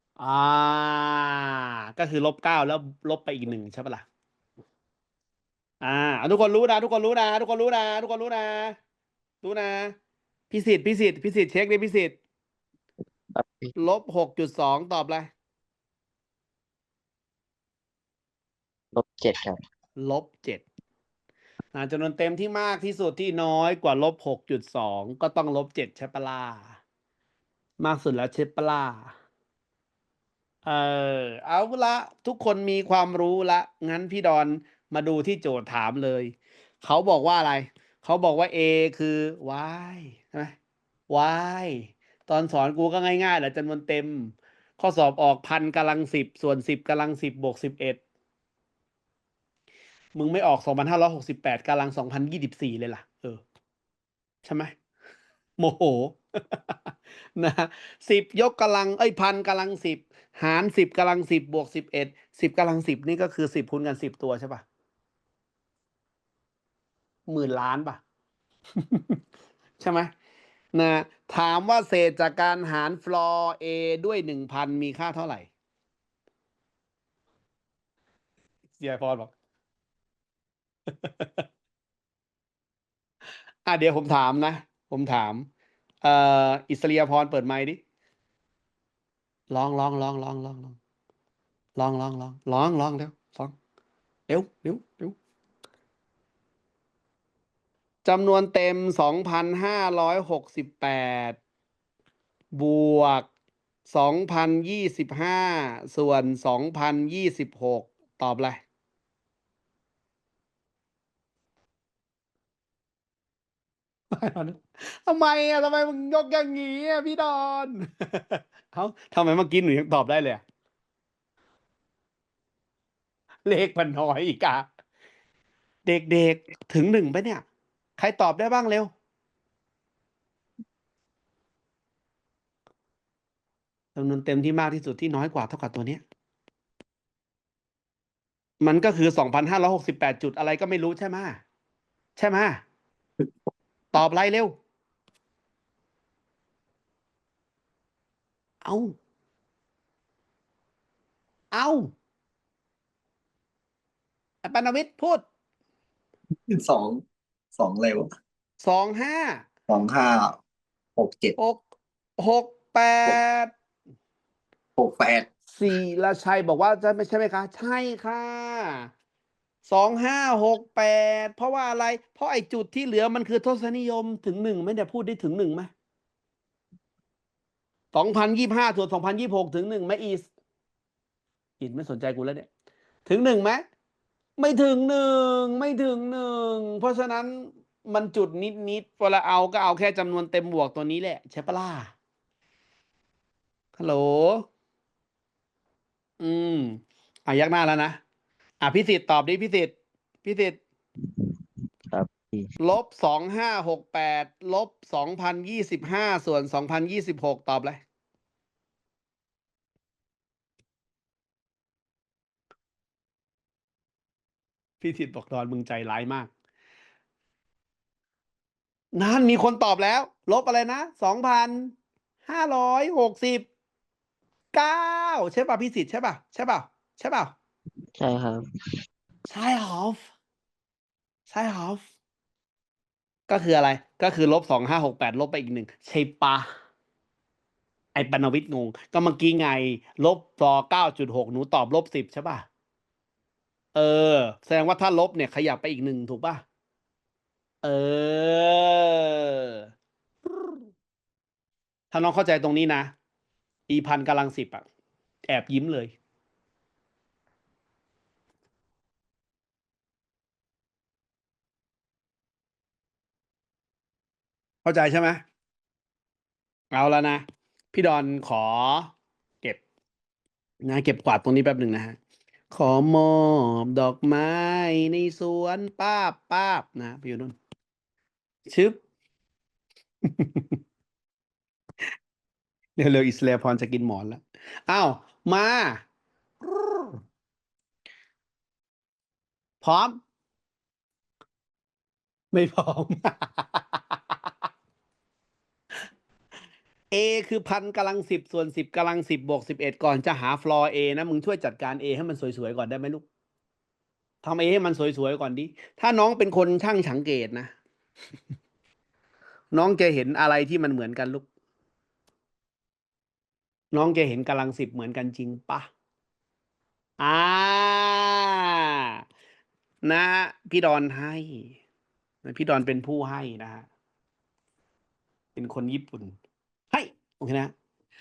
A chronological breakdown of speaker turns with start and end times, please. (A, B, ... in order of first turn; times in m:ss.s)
0:00.2-0:04.0 A
0:05.8-0:08.8 A
0:09.4-0:09.9 A
0:10.5-0:12.2 A
0:13.3-0:13.7 B
0:13.8-0:15.3 A
0:18.9-0:19.6 B
0:20.0-0:20.6 A
0:21.7-0:26.7 A
0:27.8-0:29.1 A
0:30.6-0:40.5 A
0:41.1-0:48.0 A
0:50.1-0:53.4 A
0:54.4-0:54.7 A
0:55.6-0:56.7 A
0:57.4-1:04.6 A
1:07.3-1:08.0 A
1:08.8-1:09.2 A
1:09.8-1:10.1 A
1:10.7-1:15.5 A
1:18.8-1:19.3 A
1:20.9-1:21.4 A
1:23.6-1:25.5 A
1:26.0-1:27.8 A
1:29.5-1:30.8 A
1:31.8-1:33.5 A
1:34.3-1:35.2 A
1:38.0-1:41.4 A
1:42.5-1:43.3 A
1:43.9-1:48.6 A
1:54.1-2:00.4 A
2:03.4-2:04.6 A
2:05.8-2:07.4 A
2:08.0-2:08.9 A
2:13.9-2:16.0 A
2:18.6-2:21.4 A
2:22.2-2:22.6 A
2:23.9-2:24.6 A
2:28.6-2:28.9 A
2:31.5-2:31.9 A
2:34.4-2:35.2 A
2:36.5-2:37.0 C
2:37.5-2:38.1 C
2:38.6-2:39.4 A
2:39.7-2:40.4 C
2:41.0-2:41.4 C
2:41.4-2:41.6 A
2:42.2-2:43.5 A
2:44.8-2:45.3 C
2:45.5-2:48.9 A
2:49.6-2:55.7 A
2:57.9-3:00.3 A
3:01.6-3:02.5 A
3:03.0-3:03.6 A
3:04.4-3:11.9 A
3:13.8-3:14.5 A
3:16.2-3:18.0 A
3:18.6-3:20.6 A
3:21.0-3:21.4 B
3:21.9-3:22.5 B
3:22.6-3:27.8 A
3:34.8-3:36.3 A
3:38.9-3:41.7 A
3:42.2-3:43.4 A
3:44.5-3:47.3 A
3:48.0-3:48.4 B
3:49.3-3:50.0 A
3:51.3-3:51.8 A
3:53.3-3:56.5 A
3:57.9-4:02.5 A
4:03.7-4:06.4 A
4:07.6-4:09.7 A
4:11.9-4:12.9 A
4:13.7-4:14.6 A
4:15.2-4:15.9 A
4:24.6-4:25.2 A
4:26.7-4:29.6 A
4:30.6-4:32.0 A
4:32.5-4:37.4 A
4:38.5-4:38.8 A
4:40.0-4:40.6 A
4:42.8-4:45.8 A
4:46.4-4:47.0 A
4:49.6-4:50.0 A
4:52.3-4:54.0 A
4:56.9-5:03.0 A
5:04.2-5:07.5 A
5:09.5-5:11.2 A
5:13.7-5:15.7 A
5:17.0-5:19.0 A
5:19.8-5:21.6 A
5:22.2-5:23.7 A
5:25.4-5:26.2 A
5:26.7-5:27.5 A